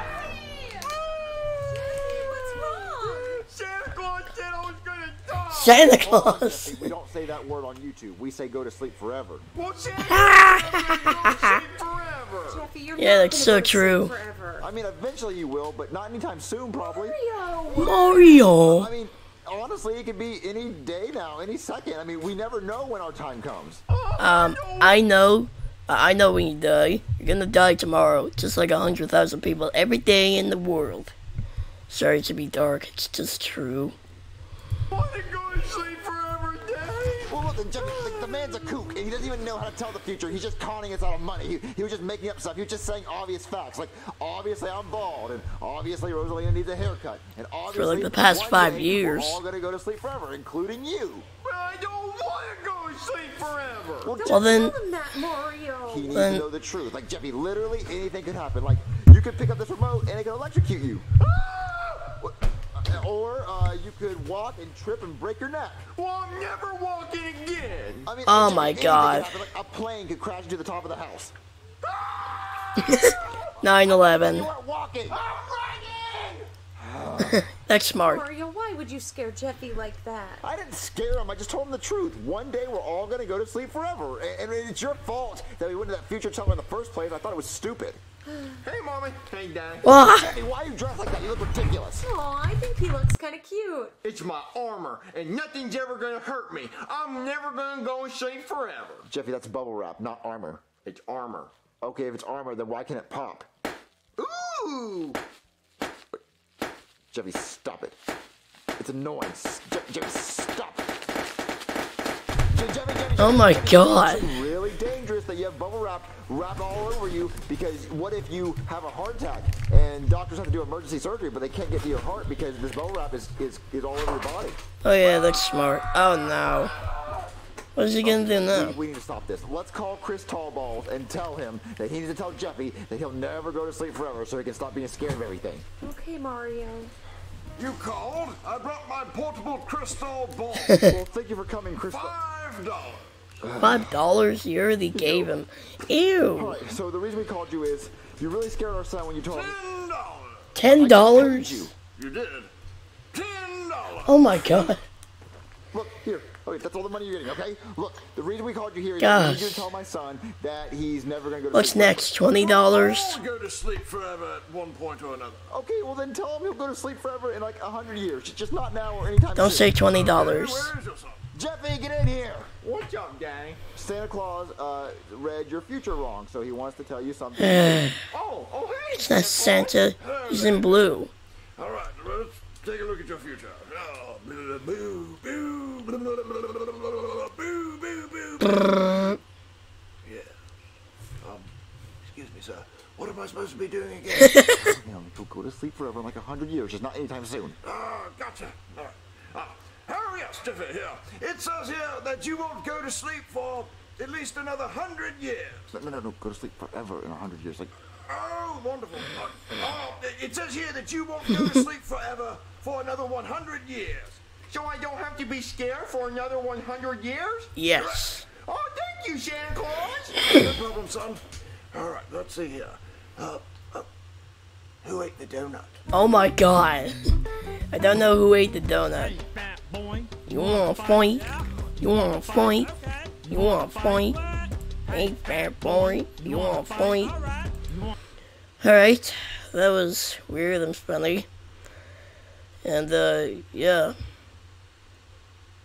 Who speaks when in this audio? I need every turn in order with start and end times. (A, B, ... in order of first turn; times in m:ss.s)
0:00.2-0:01.0 A
0:01.1-0:05.8 B
0:01.6-0:03.4 A
0:05.5-0:06.8 C
0:05.8-0:09.4 D
0:09.5-0:12.6 B
0:10.1-0:11.4 C
0:12.4-0:14.7 A
0:13.0-0:14.1 C
0:14.6-0:17.2 D
0:16.8-0:18.5 A
0:17.7-0:18.9 C
0:18.6-0:23.8 D
0:23.9-0:25.0 B
0:24.2-0:31.1 C
0:31.9-0:33.9 C
0:34.9-0:37.4 B
0:37.3-0:51.2 D
0:37.8-0:39.0 A
0:47.7-0:49.4 C
0:51.4-0:54.1 B
0:54.0-0:54.4 D
0:54.1-0:56.1 A
0:54.2-0:54.7 C
0:55.9-1:01.1 D
0:56.1-0:56.4 C
1:01.2-1:02.2 B
1:02.2-1:05.9 D
1:05.9-1:08.1 B
1:08.0-1:11.3 D
1:08.3-1:09.3 C
1:11.8-1:13.4 B
1:13.6-1:14.5 C
1:13.8-1:15.2 D
1:15.1-1:16.5 B
1:16.8-1:17.4 D
1:17.3-1:18.2 C
1:18.0-1:20.4 A
1:20.4-1:28.0 D
1:28.3-1:28.6 A
1:28.6-1:29.9 B
1:29.8-1:30.3 C
1:29.9-1:32.0 D
1:32.0-1:34.0 A
1:34.0-1:39.1 B
1:39.0-1:40.6 D
1:40.8-1:41.5 B
1:41.8-1:43.5 D
1:44.2-1:45.2 B
1:47.1-1:48.0 D
1:48.8-1:50.9 D
1:52.5-2:04.6 D
1:53.2-1:54.3 C
2:04.8-2:06.7 C
2:07.8-2:08.8 C
2:08.0-2:15.6 D
2:15.8-2:16.9 A
2:17.6-2:20.8 E
2:20.8-2:22.1 D
2:21.9-2:23.1 E
2:23.4-2:23.9 D
2:23.6-2:26.6 C
2:24.9-2:25.3 D
2:26.3-2:29.6 D
2:29.3-2:30.5 E
2:30.5-2:31.7 C
2:30.7-2:31.7 D
2:32.0-2:32.5 E
2:33.1-2:34.7 E
2:34.0-2:34.8 C
2:35.7-2:42.1 D
2:39.0-2:39.7 C
2:41.5-2:43.2 C
2:42.3-2:45.4 E
2:45.5-2:49.7 D
2:49.3-2:50.7 C
2:49.8-2:51.2 E
2:51.3-2:52.5 D
2:52.6-2:53.6 B
2:53.7-2:57.9 D
2:57.4-2:58.0 C
2:58.1-2:59.9 B
2:58.9-3:01.1 C
3:00.0-3:00.9 E
3:01.6-3:09.1 E
3:10.0-3:10.3 E
3:11.2-3:11.5 E
3:12.0-3:14.5 E
3:14.5-3:17.6 D
3:17.6-3:25.7 E
3:25.7-3:27.7 D
3:27.9-3:34.2 E
3:34.4-3:37.5 B
3:37.6-3:38.2 C
3:37.7-3:38.2 E
3:38.4-3:40.2 B
3:40.2-3:43.9 E
3:44.8-3:45.8 E
3:45.9-3:47.0 C
3:47.7-3:49.2 C
3:50.3-3:52.7 C
3:53.3-3:54.2 C
3:54.9-3:57.2 C
3:58.6-4:01.2 C
4:02.6-4:03.9 C